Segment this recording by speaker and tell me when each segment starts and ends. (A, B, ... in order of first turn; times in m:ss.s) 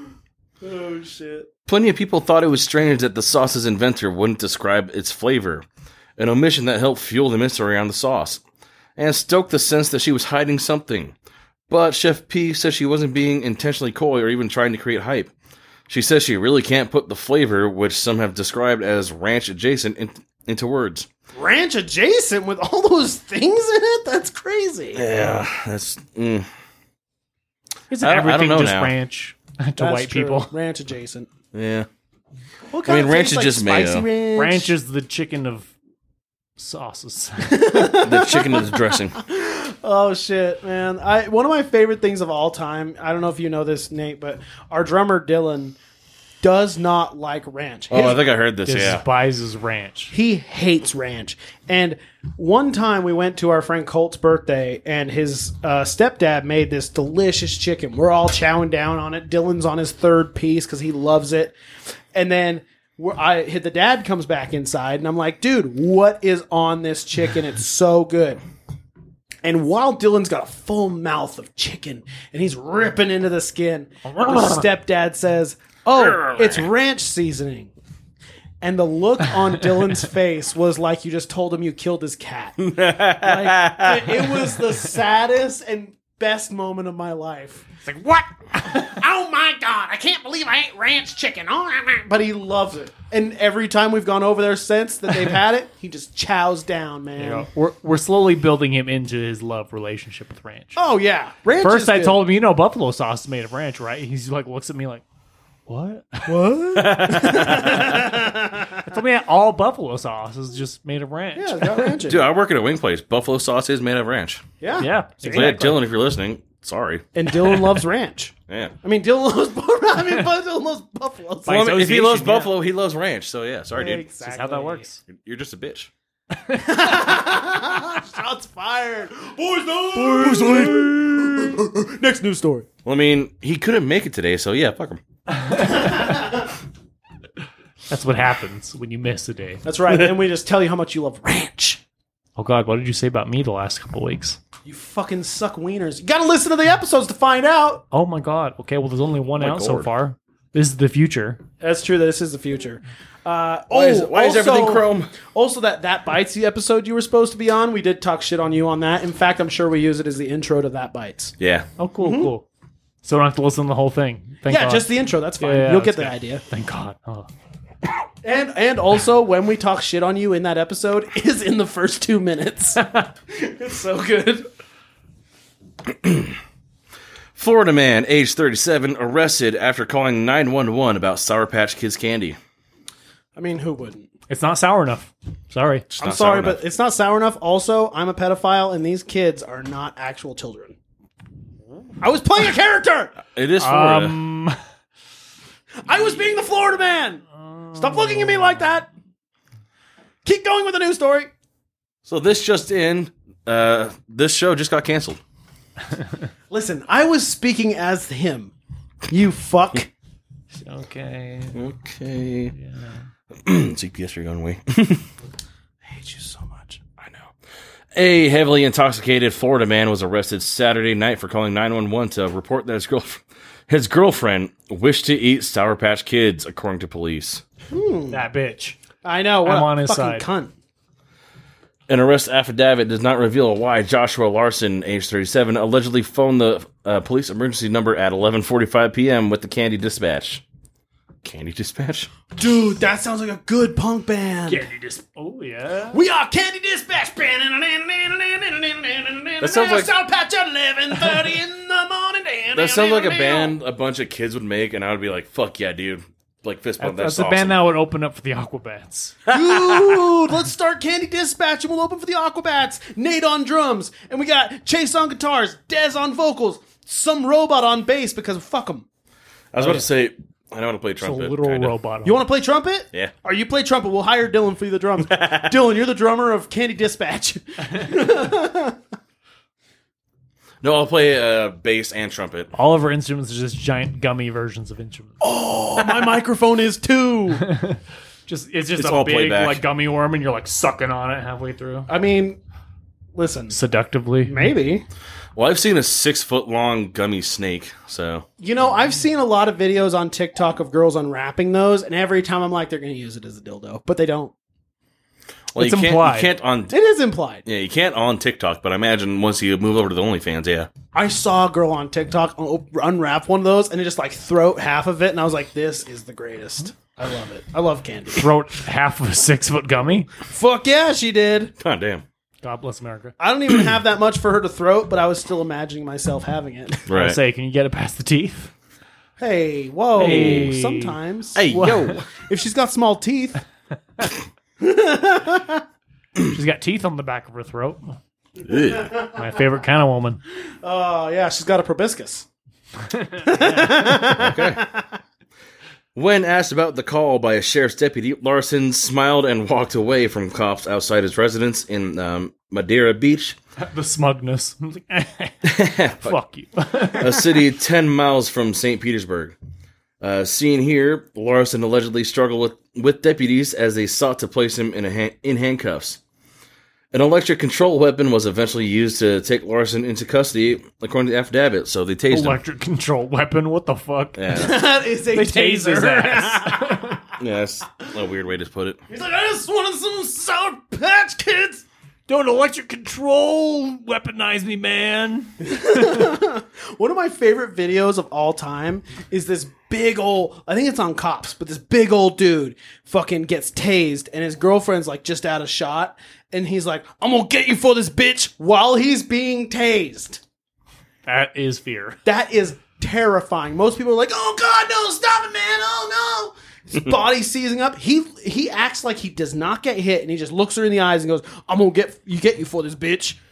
0:00.6-0:01.5 A
0:01.7-0:05.6 B
0:06.2-0:08.4 B
0:09.0-0:11.1 B
0:11.7-0:15.3 B
0:15.9-0:21.1 B
0:21.3-0:25.0 A
0:24.9-0:26.5 B
0:27.9-0:30.5 C
0:28.0-0:28.9 B
0:29.8-0:31.3 A
0:31.5-0:31.9 B
0:32.7-0:34.7 A
0:32.8-0:34.1 B
0:34.4-0:35.7 C
0:36.6-0:38.0 C
0:37.4-0:45.8 A
0:38.0-0:39.2 B
0:46.4-0:48.2 A
0:47.9-0:49.0 B
0:48.6-0:50.1 C
0:50.1-1:01.6 A
1:02.1-1:08.4 A
1:09.4-1:17.7 A
1:15.9-1:16.7 B
1:18.6-1:37.5 A
1:22.6-1:24.5 B
1:37.2-1:40.8 C
1:40.8-1:42.2 A
1:41.6-1:45.0 C
1:45.7-1:46.4 C
1:46.3-1:48.9 A
1:46.7-1:48.1 B
1:48.8-1:52.0 C
1:51.4-1:52.2 A
1:52.0-1:54.4 B
1:54.6-1:55.7 A
1:54.8-1:55.8 C
1:55.3-1:57.1 B
1:57.1-2:01.6 A
1:58.5-1:58.7 B
2:01.4-2:02.5 C
2:01.5-2:04.0 B
2:03.7-2:04.8 A
2:04.2-2:05.0 C
2:05.1-2:05.9 B
2:06.4-2:06.8 C
2:06.6-2:12.7 A
2:10.0-2:11.4 B
2:12.8-2:15.0 B
2:15.4-2:16.0 C
2:16.0-2:16.2 A
2:17.9-2:19.6 C
2:19.6-2:21.8 A
2:22.4-2:24.4 C
2:24.6-2:27.8 A
2:27.9-2:31.4 C
2:29.4-2:29.9 B
2:31.6-2:41.3 A
2:33.7-2:35.1 B
2:41.4-2:41.7 B
2:41.8-2:42.4 C
2:42.0-2:42.3 A
2:43.0-2:44.9 C
2:44.5-2:46.4 A
2:45.4-2:47.3 C
2:48.2-2:54.5 A
2:55.9-2:56.3 B
2:57.3-3:02.4 B
3:03.3-3:04.1 A
3:04.3-3:05.8 C
3:05.9-3:06.6 B
3:06.0-3:10.8 A
3:12.0-3:13.1 A
3:13.2-3:14.2 B
3:13.6-3:14.6 C
3:15.8-3:18.9 A
3:17.4-3:18.7 C
3:20.2-3:21.3 A
3:22.0-3:25.2 B
3:26.5-3:28.5 A
3:29.1-3:29.9 A
3:30.5-3:31.6 C
3:31.5-3:32.5 B
3:32.5-3:33.0 C
3:33.4-3:35.0 B
3:35.8-3:36.8 A
3:37.0-3:37.3 B
3:37.9-3:47.4 B
3:47.7-3:48.2 A
3:48.1-3:48.8 C
3:49.0-3:50.5 A
3:49.4-3:50.3 C
3:51.9-4:00.4 B
4:01.2-4:02.1 B
4:02.4-4:04.6 A
4:04.5-4:06.0 C
4:05.9-4:13.5 A
4:09.4-4:09.9 B
4:12.5-4:17.6 B
4:16.8-4:19.2 C
4:19.3-4:28.8 A
4:19.3-4:20.0 B
4:29.5-4:31.7 B
4:31.0-4:32.2 C
4:32.0-4:38.8 A
4:35.0-4:35.5 B
4:40.6-4:42.5 B
4:42.5-4:45.2 C
4:45.2-4:47.5 A
4:47.4-4:51.9 C
4:48.8-4:49.6 B
4:51.9-4:52.4 A
4:53.1-4:53.6 A
4:53.5-4:54.4 C
4:54.2-4:54.8 A
4:55.3-4:58.2 B
4:58.4-5:04.3 A
5:05.5-5:06.7 B
5:05.6-5:06.3 C
5:06.7-5:07.4 A
5:07.4-5:10.7 B
5:10.9-5:18.3 A
5:18.2-5:20.1 C
5:20.2-5:21.5 A
5:21.6-5:22.0 B
5:22.4-5:23.1 C
5:23.2-5:26.8 A
5:26.9-5:27.2 B
5:26.9-5:28.5 C
5:29.2-5:33.4 A
5:30.0-5:31.0 C
5:30.0-5:30.5 B
5:31.3-5:32.0 B
5:31.5-5:32.0 C
5:34.6-5:35.6 A
5:36.3-5:38.0 C
5:38.4-5:38.9 B
5:38.8-5:39.2 A
5:39.1-5:40.2 C
5:40.6-5:42.2 A
5:42.9-5:43.9 C
5:43.2-5:44.9 A
5:44.1-5:44.6 B
5:45.9-5:53.4 B
5:53.6-5:57.4 C
5:55.4-5:56.2 B
5:56.8-5:59.3 B
6:00.0-6:06.0 B
6:06.9-6:12.4 B
6:12.1-6:14.5 C
6:14.2-6:14.6 B
6:14.3-6:17.0 A
6:15.1-6:17.0 C
6:17.2-6:18.8 B
6:18.9-6:21.6 A
6:22.1-6:26.1 C
6:25.4-6:40.2 A
6:41.0-6:42.0 C
6:42.0-6:53.2 A